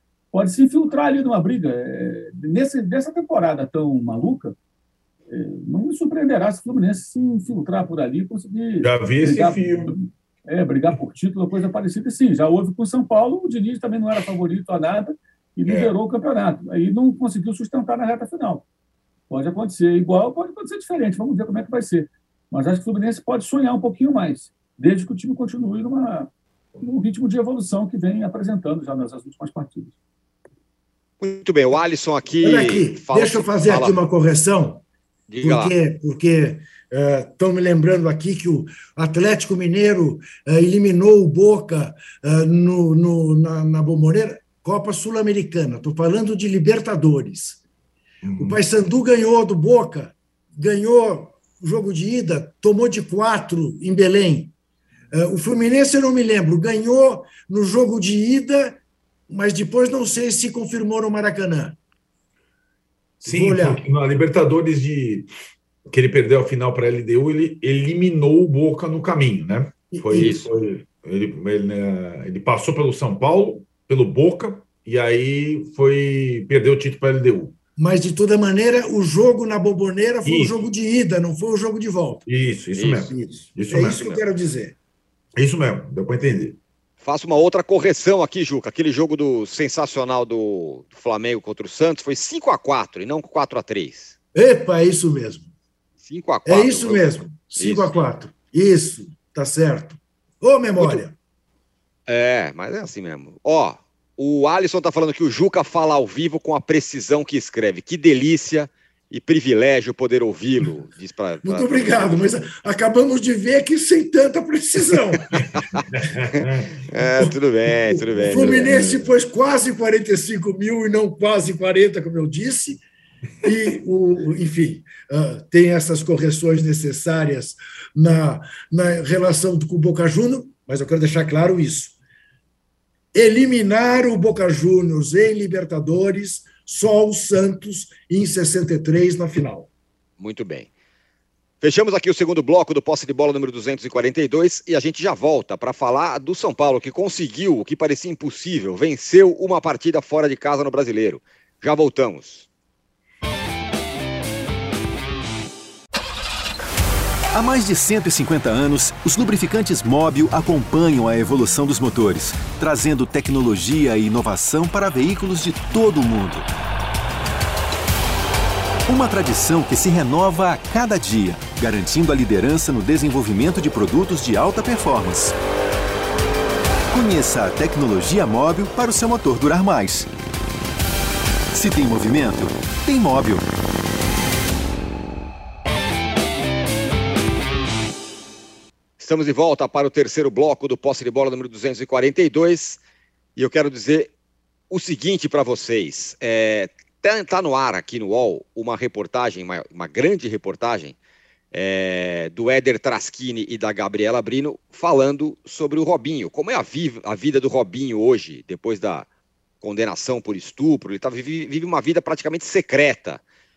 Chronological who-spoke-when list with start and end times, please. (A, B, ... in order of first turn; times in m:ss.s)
0:00.3-0:04.6 A
0:05.3-0:18.6 A
0:08.8-0:10.0 B
0:19.3-0:29.9 A
0:31.2-0:34.0 C
0:32.4-0:34.8 D
0:35.3-0:35.7 C
0:35.4-0:47.6 D
0:48.2-0:48.6 B
0:48.4-0:54.5 D
0:55.1-1:01.8 D
1:03.2-1:05.3 B
1:03.2-1:03.9 D
1:05.9-1:17.6 B
1:09.9-1:10.4 D
1:10.1-1:10.4 C
1:17.8-1:22.3 D
1:20.2-1:20.6 B
1:22.3-1:24.0 B
1:22.8-1:23.1 C
1:23.1-1:24.8 D
1:23.8-1:24.2 C
1:25.4-1:26.6 B
1:27.0-1:34.2 C
1:34.4-1:35.5 D
1:36.0-1:37.9 C
1:36.4-1:41.2 D
1:40.8-1:41.0 C
1:42.1-1:52.2 C
1:51.4-1:55.3 D
1:56.0-1:56.7 B
1:56.4-1:59.1 C
1:57.9-2:02.8 D
1:58.3-1:58.7 B
2:03.4-2:12.0 D
2:13.1-2:19.7 D
2:20.2-2:20.7 C
2:21.6-2:32.5 C
2:37.3-2:46.5 E
2:48.9-2:55.4 E
2:56.9-3:00.1 E
3:01.5-3:03.5 E
3:09.0-3:12.8 C
3:13.4-3:14.1 C
3:14.7-3:21.0 C
3:21.5-3:29.1 C
3:29.6-3:33.2 C